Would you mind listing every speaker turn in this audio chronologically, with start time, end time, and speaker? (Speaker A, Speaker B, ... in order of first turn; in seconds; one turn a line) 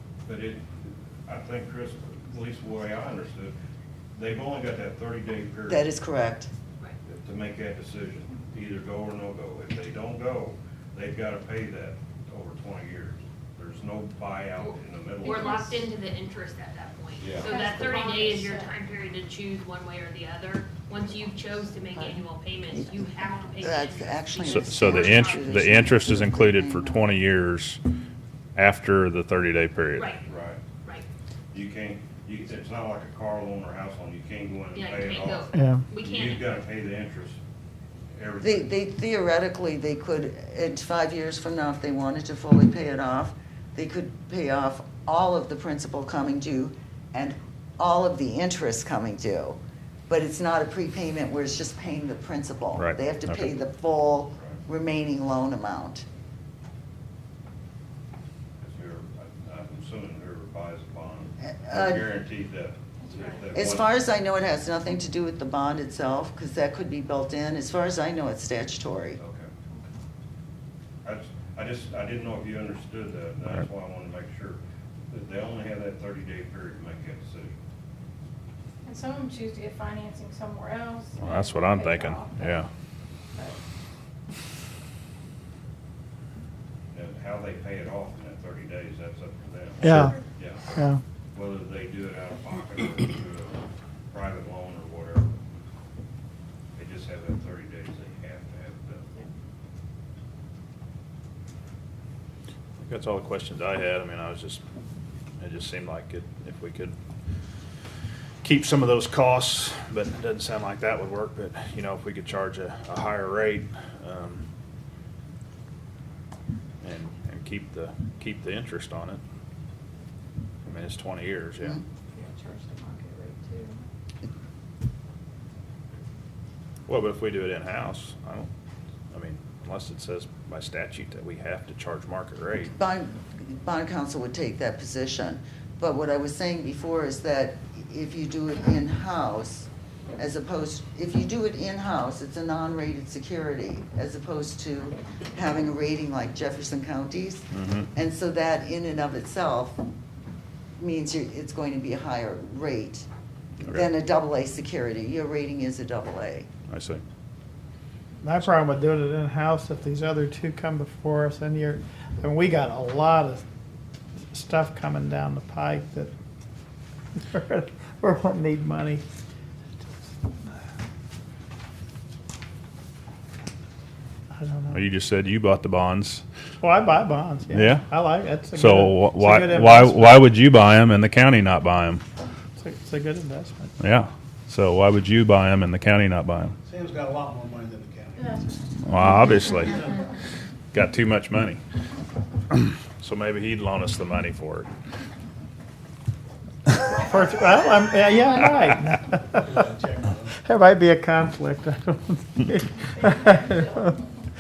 Speaker A: 0.2-3.5
Speaker A: 4.1-5.9
Speaker B: 5.7-6.5
Speaker A: 7.0-15.9
Speaker C: 14.6-25.5
Speaker D: 15.2-15.8
Speaker A: 17.2-17.8
Speaker D: 17.4-18.7
Speaker B: 22.7-27.1
Speaker E: 24.4-27.8
Speaker E: 28.6-30.1
Speaker C: 29.9-30.2
Speaker A: 30.2-30.6
Speaker A: 31.5-37.4
Speaker C: 34.7-36.5
Speaker F: 35.5-35.8
Speaker A: 38.1-38.7
Speaker B: 38.4-56.0
Speaker E: 52.8-53.5
Speaker A: 54.3-54.6
Speaker A: 58.6-63.9
Speaker B: 61.4-62.0
Speaker D: 63.0-63.4
Speaker B: 63.5-69.2
Speaker A: 69.2-69.5
Speaker A: 71.0-77.6
Speaker D: 78.8-82.7
Speaker E: 81.2-82.7
Speaker D: 83.3-83.6
Speaker A: 86.9-90.6
Speaker F: 89.8-90.2
Speaker D: 89.8-90.2
Speaker F: 90.7-91.0
Speaker A: 91.3-95.3
Speaker A: 96.8-99.1
Speaker E: 102.8-104.6
Speaker E: 105.4-106.9
Speaker E: 108.4-114.4
Speaker E: 116.8-119.2
Speaker E: 120.7-121.8
Speaker D: 122.1-123.8
Speaker E: 126.9-128.5
Speaker E: 129.1-132.7
Speaker B: 132.8-149.8
Speaker E: 147.5-147.9
Speaker B: 150.8-153.1
Speaker E: 153.6-153.9
Speaker B: 153.7-156.5
Speaker E: 156.7-157.0
Speaker F: 158.2-163.4
Speaker F: 164.3-166.1
Speaker F: 167.1-169.0
Speaker F: 174.3-174.8
Speaker E: 174.7-176.2
Speaker F: 176.6-180.1
Speaker E: 177.5-177.9
Speaker E: 178.5-182.0
Speaker F: 182.6-183.7
Speaker E: 183.8-186.5
Speaker G: 186.6-188.6
Speaker D: 188.2-188.4
Speaker E: 188.8-189.8
Speaker E: 190.7-191.6
Speaker E: 192.5-194.7
Speaker F: 197.0-199.6
Speaker G: 199.4-200.3
Speaker F: 200.4-204.0
Speaker D: 202.9-204.1